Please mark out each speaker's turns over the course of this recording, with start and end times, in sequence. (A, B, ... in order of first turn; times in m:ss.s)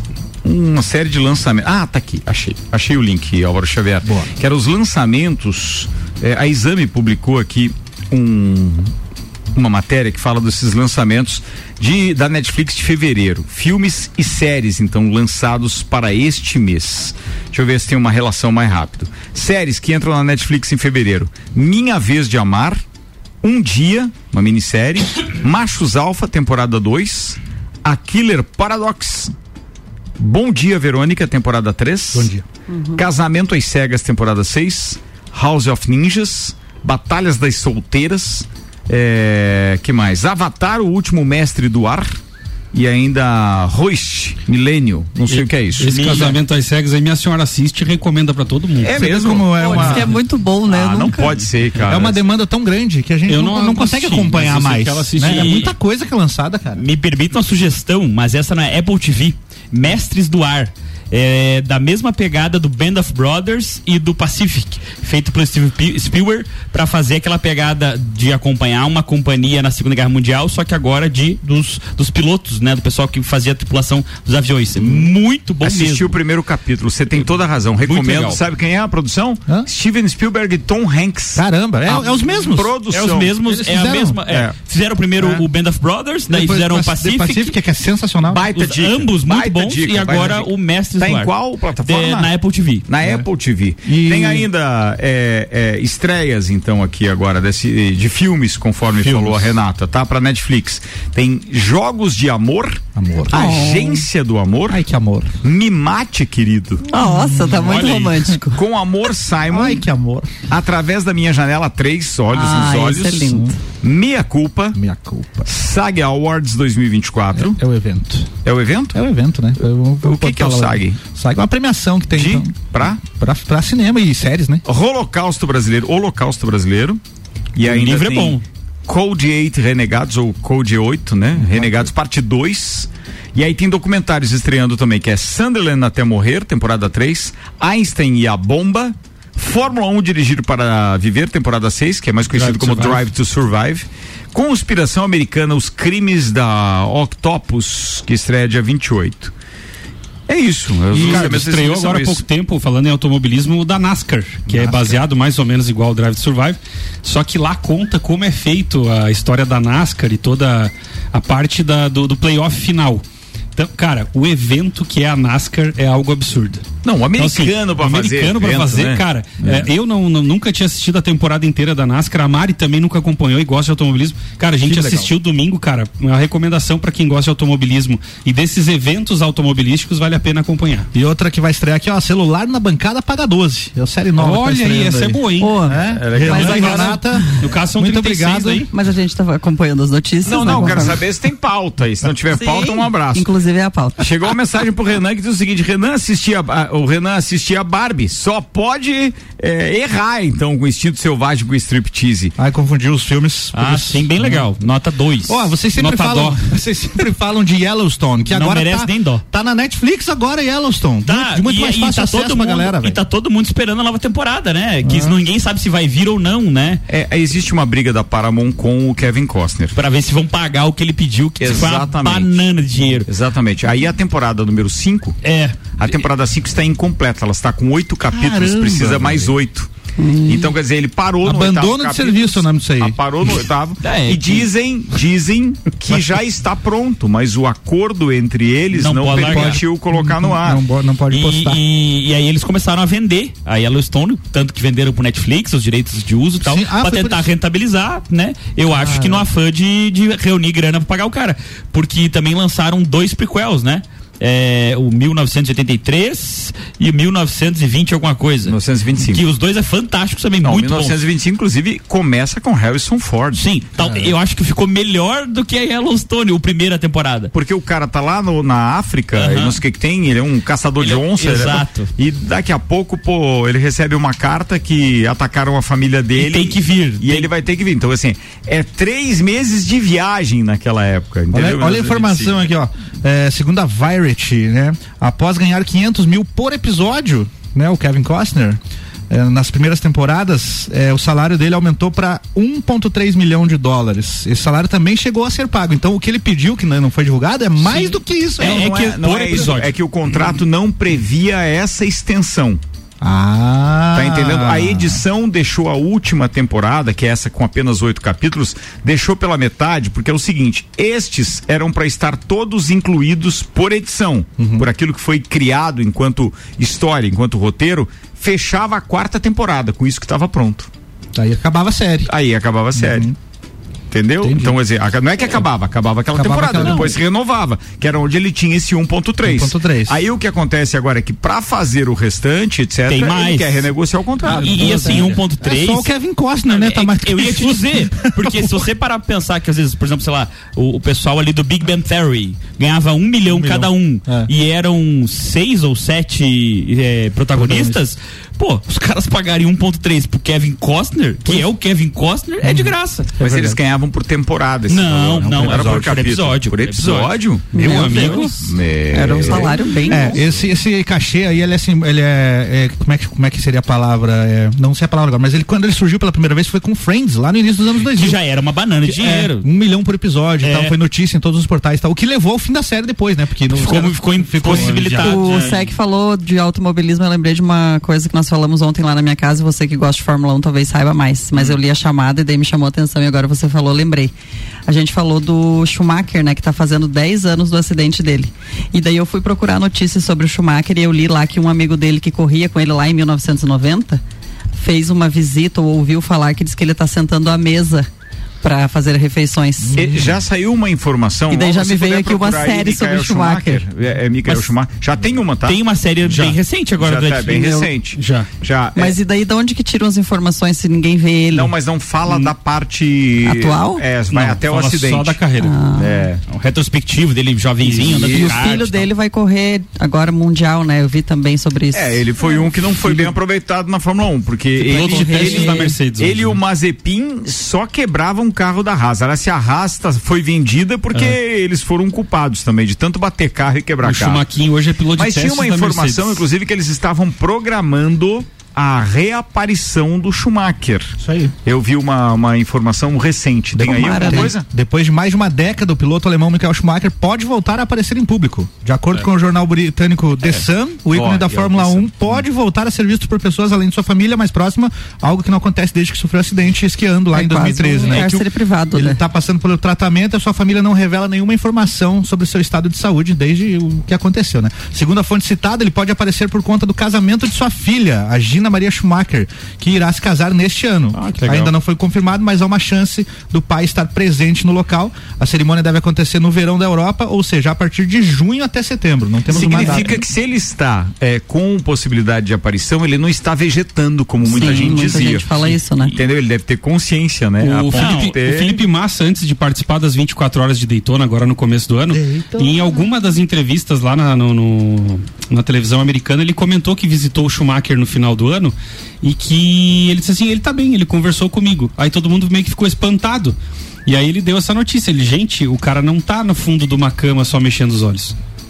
0:00.4-0:08.9 A
0:09.5-0:22.8 A
0:23.4-0:29.3 A
0:30.2-0:32.3 A
0:32.1-0:32.4 B
0:32.7-0:33.0 C
0:32.9-0:42.1 A
0:42.7-0:46.4 A
0:45.3-0:49.0 D
0:45.9-0:46.3 E
0:48.8-0:50.1 A
0:48.9-0:50.1 B
0:49.6-0:51.4 C
0:50.6-0:52.2 A
0:51.8-0:56.8 B
0:53.3-0:55.7 D
0:55.2-0:55.7 E
0:56.8-1:16.2 E
1:15.6-1:23.3 A
1:17.8-1:18.4 E
1:21.4-1:22.7 B
1:22.9-1:27.6 E
1:23.4-1:24.2 B
1:24.3-1:24.5 A
1:26.3-1:28.4 B
1:28.3-1:32.3 A
1:28.5-1:32.8 E
1:32.8-1:44.8 A
1:33.0-1:33.3 B
1:33.8-1:34.5 B
1:42.9-1:43.6 B
1:43.3-1:44.0 C
1:44.7-1:45.3 B
1:45.4-1:46.8 A
1:46.9-1:48.6 C
1:47.0-1:47.7 B
1:47.5-1:48.2 D
1:48.5-1:49.8 A
1:49.5-1:50.3 B
1:50.5-1:54.8 A
1:52.3-1:53.6 C
1:53.3-1:53.5 B
1:54.7-1:55.5 B
1:55.4-1:57.6 A
1:57.3-1:58.3 B
1:58.4-1:59.0 A
1:58.9-2:04.6 B
2:00.0-2:01.0 A
2:02.1-2:03.0 A
2:04.6-2:07.0 A
2:07.6-2:29.3 A
2:07.6-2:08.4 E
2:11.5-2:11.9 B
2:22.3-2:23.0 D
2:30.3-2:32.2 A
2:30.9-2:43.0 D
2:34.5-2:34.9 B
2:43.6-2:46.6 D
2:46.8-2:49.6 A
2:47.1-3:00.9 D
2:54.6-2:55.1 B
3:00.9-3:08.7 B
3:04.2-3:05.7 D
3:05.4-3:07.3 C
3:05.9-3:06.9 A
3:06.2-3:08.7 D
3:08.7-3:11.0 C
3:10.2-3:13.3 A
3:12.3-3:14.1 C
3:14.0-3:22.3 A
3:22.4-3:24.5 B
3:23.5-3:25.5 E
3:25.2-3:33.0 B
3:25.8-3:26.4 D
3:28.3-3:29.2 E
3:31.0-3:36.8 E
3:34.8-3:35.2 B
3:36.9-3:39.8 A
3:39.7-3:43.1 E
3:41.4-3:42.4 A
3:43.0-3:45.2 A
3:45.2-3:45.8 E
3:45.8-3:49.7 A
3:48.1-3:49.3 B
3:50.0-3:50.5 C
3:50.2-4:00.6 A
3:51.2-3:53.0 B
3:53.8-3:54.5 E
3:58.7-3:59.6 E
3:59.2-4:01.6 B
4:01.1-4:18.6 E
4:06.4-4:07.3 B
4:08.7-4:09.3 B
4:18.4-4:19.2 A
4:19.1-4:21.0 E
4:20.4-4:23.4 A
4:23.4-4:27.3 E
4:27.3-4:42.4 A
4:29.1-4:29.6 E
4:30.8-4:31.9 E
4:36.2-4:37.3 E
4:41.3-4:48.6 B
4:49.1-4:58.7 B
4:58.4-5:02.6 A
4:58.4-4:59.7 D
5:03.0-5:05.0 B
5:03.9-5:20.7 A
5:14.4-5:14.7 B
5:21.1-5:22.1 B
5:22.1-5:23.1 A
5:22.7-5:23.2 B
5:23.9-5:35.1 A
5:24.2-5:24.6 B
5:26.1-5:27.0 B
5:29.2-5:30.0 B
5:32.9-5:33.7 E
5:34.2-5:38.7 B
5:34.3-5:35.9 E
5:36.5-5:53.1 E
5:43.3-5:44.3 B
5:47.3-5:47.8 B
5:52.4-5:53.6 B
5:53.2-5:57.5 A
5:54.7-5:57.1 E
5:55.2-5:55.9 B
5:57.5-5:58.4 C
5:57.6-5:58.4 D
5:57.7-5:58.2 E
5:58.2-5:59.5 A
5:58.9-6:00.2 C
5:59.2-6:08.2 B
6:07.8-6:09.4 E
6:08.8-6:15.0 B
6:10.4-6:10.7 E
6:13.5-6:15.6 E
6:14.4-6:15.6 D
6:15.0-6:24.1 C
6:24.7-6:34.0 C
6:34.5-6:37.9 C
6:38.4-6:40.0 C
6:39.6-6:40.1 B
6:39.7-6:49.0 A
6:41.3-6:43.6 C
6:45.4-6:47.7 E
6:47.9-6:48.3 D
6:48.8-6:51.5 C
6:51.3-6:55.2 A
6:53.2-6:53.8 C
6:54.1-6:55.6 D
6:55.4-6:56.1 C
6:55.7-6:56.2 A
6:56.3-6:58.8 E
6:57.6-6:58.3 D
6:57.9-6:58.3 A
6:58.1-7:02.1 C
7:01.7-7:14.2 A
7:04.6-7:06.4 D
7:04.7-7:05.8 C
7:13.8-7:16.2 D
7:15.0-7:24.4 A
7:21.0-7:21.3 B
7:23.6-8:00.0 B
7:23.6-7:24.3 C
7:30.9-7:32.2 A
7:37.1-7:39.0 C
7:51.0-7:51.5 E
7:59.3-8:08.6 A
8:04.2-8:05.9 C
8:04.4-8:04.8 D
8:07.4-8:28.1 D
8:07.7-8:08.1 E
8:11.9-8:12.8 B